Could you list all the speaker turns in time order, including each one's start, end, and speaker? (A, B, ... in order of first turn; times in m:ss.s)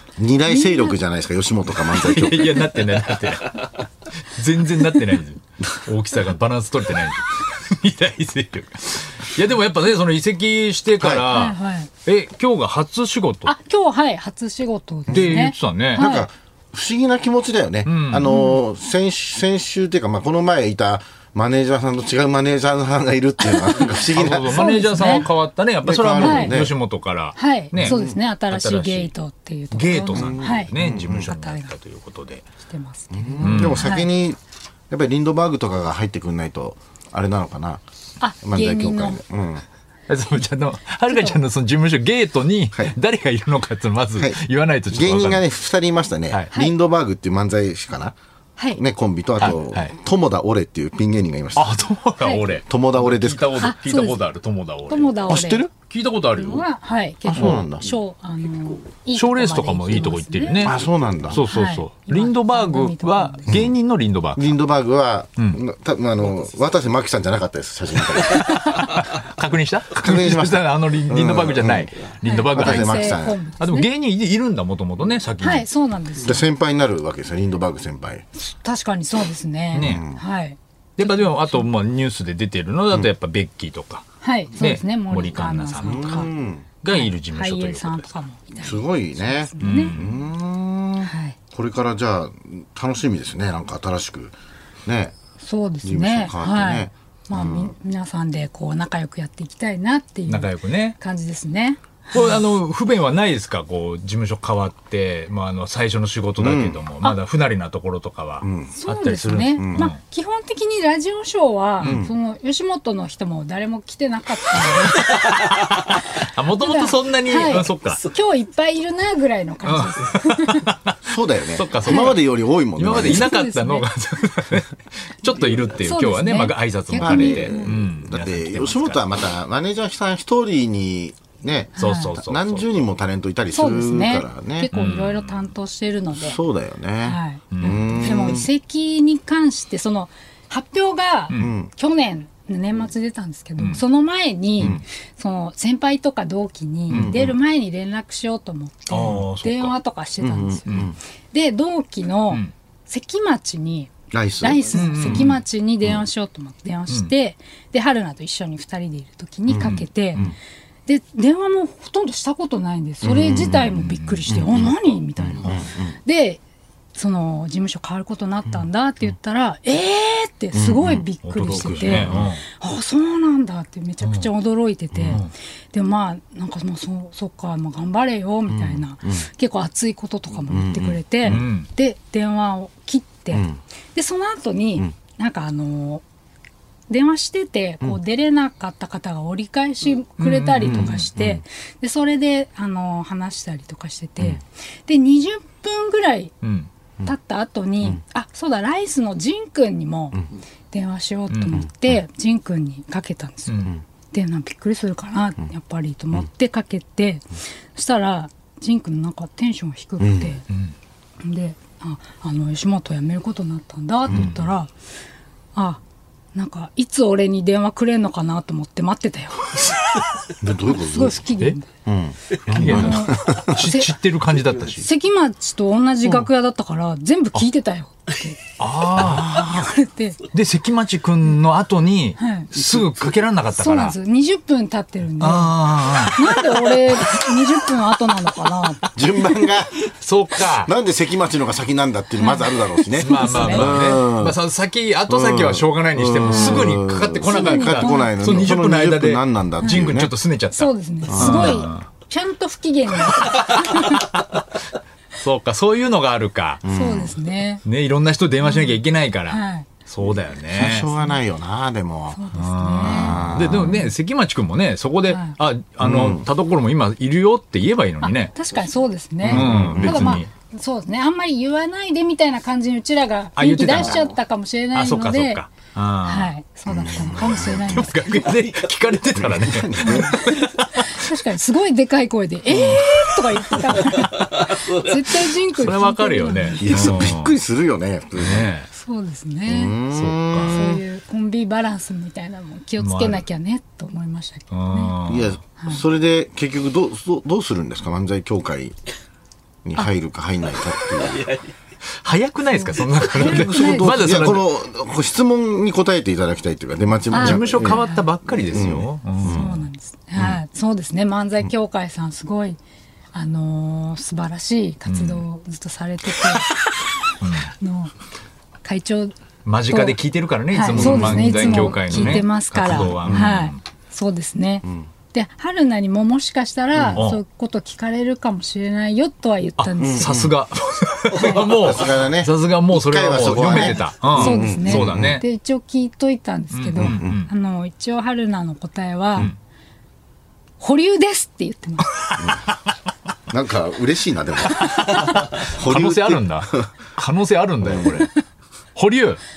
0:00.2-0:02.7 A
0:00.5-0:00.9 B
0:01.9-0:13.5 C
0:11.0-0:11.3 A
0:11.3-0:11.9 B
0:13.4-0:16.3 B
0:15.1-0:15.4 A
0:15.1-0:16.1 C
0:15.9-0:25.2 A
0:17.8-0:18.3 C
0:18.3-0:18.6 B
0:23.9-0:29.1 C
0:24.5-0:25.3 B
0:25.8-0:26.8 A
0:26.2-0:26.6 B
0:27.4-0:31.7 B
0:27.8-0:28.2 A
0:29.7-0:32.5 C
0:30.1-0:31.3 A
0:32.6-0:34.1 B
0:33.1-0:34.4 A
0:33.4-0:33.9 C
0:34.9-0:37.8 A
0:38.2-0:39.2 B
0:38.4-0:39.6 A
0:40.1-0:45.4 C
0:41.1-0:41.4 B
0:44.9-0:48.2 A
0:48.8-0:51.8 A
0:49.4-0:49.9 C
0:51.6-0:55.2 C
0:52.7-0:53.7 A
0:53.6-0:54.2 B
0:54.9-0:55.7 B
0:55.3-0:55.7 A
0:55.9-0:56.6 C
0:56.4-1:00.7 B
0:57.3-0:57.9 A
0:57.4-0:57.6 C
0:59.2-1:04.5 C
1:00.6-1:01.4 A
1:01.3-1:03.5 B
1:03.5-1:03.7 A
1:04.4-1:08.6 A
1:08.1-1:15.7 C
1:09.9-1:11.9 A
1:12.2-1:13.9 B
1:12.5-1:13.4 A
1:15.4-1:16.5 B
1:16.2-1:18.3 A
1:18.4-1:21.7 B
1:19.8-1:20.1 C
1:19.8-1:20.2 A
1:21.0-1:26.3 C
1:24.2-1:26.3 B
1:25.8-1:26.7 A
1:26.8-1:28.1 C
1:26.9-1:30.0 B
1:28.6-1:35.2 A
1:29.6-1:30.2 C
1:31.0-1:31.4 B
1:35.4-1:42.4 B
1:35.8-1:37.7 A
1:40.3-1:41.0 C
1:42.1-1:50.0 C
1:46.4-1:46.8 A
1:48.4-1:48.7 A
1:48.7-1:55.3 B
1:49.6-1:49.9 A
1:51.8-1:52.1 A
1:54.8-1:58.0 C
1:55.9-2:00.7 B
1:59.6-2:01.0 C
2:01.0-2:03.3 A
2:01.5-2:09.0 C
2:01.8-2:02.2 B
2:03.0-2:03.9 B
2:05.7-2:07.7 B
2:07.0-2:14.7 A
2:11.8-2:12.1 B
2:11.8-2:12.8 C
2:13.5-2:16.4 B
2:14.7-2:15.5 C
2:16.1-2:18.5 A
2:17.0-2:40.3 B
2:17.5-2:18.3 C
2:21.4-2:21.7 A
2:26.9-2:27.2 C
2:26.9-2:27.4 A
2:28.9-2:29.7 C
2:30.2-2:31.0 A
2:34.1-2:35.3 A
2:34.7-2:35.4 C
2:39.5-2:40.4 A
2:39.6-2:40.3 C
2:40.9-2:46.4 B
2:43.0-2:46.0 A
2:43.7-2:44.2 C
2:47.0-3:06.0 B
2:50.5-2:52.3 A
2:51.2-2:52.4 C
2:54.0-2:54.3 C
2:55.0-2:55.2 A
2:58.5-2:59.3 A
3:00.5-3:01.5 A
3:01.2-3:01.7 C
3:03.3-3:03.6 A
3:06.9-3:16.4 B
3:10.2-3:11.1 C
3:10.6-3:11.4 A
3:16.4-3:16.7 C
3:17.0-3:30.4 B
3:21.3-3:21.6 C
3:23.5-3:23.7 C
3:30.0-3:30.4 A
3:30.5-3:30.7 C
3:31.2-3:34.7 B
3:34.1-3:34.4 A
3:34.1-3:34.4 C
3:35.6-3:35.8 B
3:36.3-3:39.7 B
3:40.4-3:41.2 A
3:40.6-3:41.7 B
3:41.8-3:43.6 A
3:42.5-3:44.9 C
3:42.5-3:43.9 B
3:44.8-3:48.5 B
3:48.6-3:49.4 C
3:48.9-3:49.7 A
3:49.1-3:50.2 B
3:50.3-3:54.0 C
3:52.2-3:52.5 B
3:53.6-3:58.9 B
3:55.2-3:56.3 C
3:58.9-3:59.8 A
3:59.9-4:00.7 C
4:00.6-4:04.4 A
4:02.2-4:03.8 B
4:03.0-4:11.9 C
4:05.1-4:10.1 A
4:06.2-4:08.4 B
4:10.5-4:14.1 B
4:11.1-4:11.6 A
4:13.2-4:14.2 C
4:15.2-4:16.6 C
4:16.6-4:17.2 A
4:16.7-4:17.6 B
4:17.6-4:20.9 C
4:18.4-4:19.7 B
4:20.5-4:22.2 A
4:22.1-4:23.9 B
4:22.3-4:28.3 C
4:22.8-4:23.8 A
4:25.1-4:25.4 B
4:25.8-4:26.3 A
4:28.0-4:35.4 B
4:29.2-4:30.2 A
4:29.3-4:30.3 C
4:33.4-4:34.1 C
4:34.7-4:36.3 C
4:36.0-4:38.3 B
4:36.7-4:37.8 A
4:37.0-4:41.0 C
4:39.2-4:40.2 A
4:39.8-4:47.0 B
4:42.5-4:44.0 C
4:45.5-4:47.4 C
4:46.6-4:48.5 A
4:48.2-4:48.7 C
4:48.7-4:49.8 B
4:49.5-4:50.8 A
4:49.9-4:50.6 C
4:50.4-4:55.0 B
4:52.8-4:53.2 C
4:54.5-4:55.4 C
4:55.1-4:58.8 A
4:59.6-5:01.4 A
5:02.0-5:04.5 C
5:03.0-5:03.9 B
5:03.2-5:07.8 A
5:07.1-5:08.0 B
5:07.1-5:09.6 C
5:08.4-5:09.6 A
5:09.2-5:12.6 B
5:13.1-5:16.5 B
5:14.9-5:15.2 C
5:17.2-5:17.5 C
5:17.6-5:17.9 B
5:18.6-5:19.2 B
5:19.4-5:23.6 C
5:19.7-5:20.0 B
5:20.5-5:30.2 B
5:20.7-5:22.2 A
5:22.8-5:23.4 A
5:26.8-5:27.0 A
5:27.0-5:27.2 C
5:29.6-5:35.2 C
5:29.8-5:30.3 A
5:31.1-5:31.5 B
5:31.2-5:35.2 A
5:33.4-5:39.3 B
5:36.5-5:37.3 C
5:36.8-5:37.2 A
5:40.6-5:41.9 B
5:42.2-5:42.5 A
5:43.3-5:46.7 A
5:44.6-5:48.2 C
5:47.6-5:48.0 A
5:48.8-5:49.2 C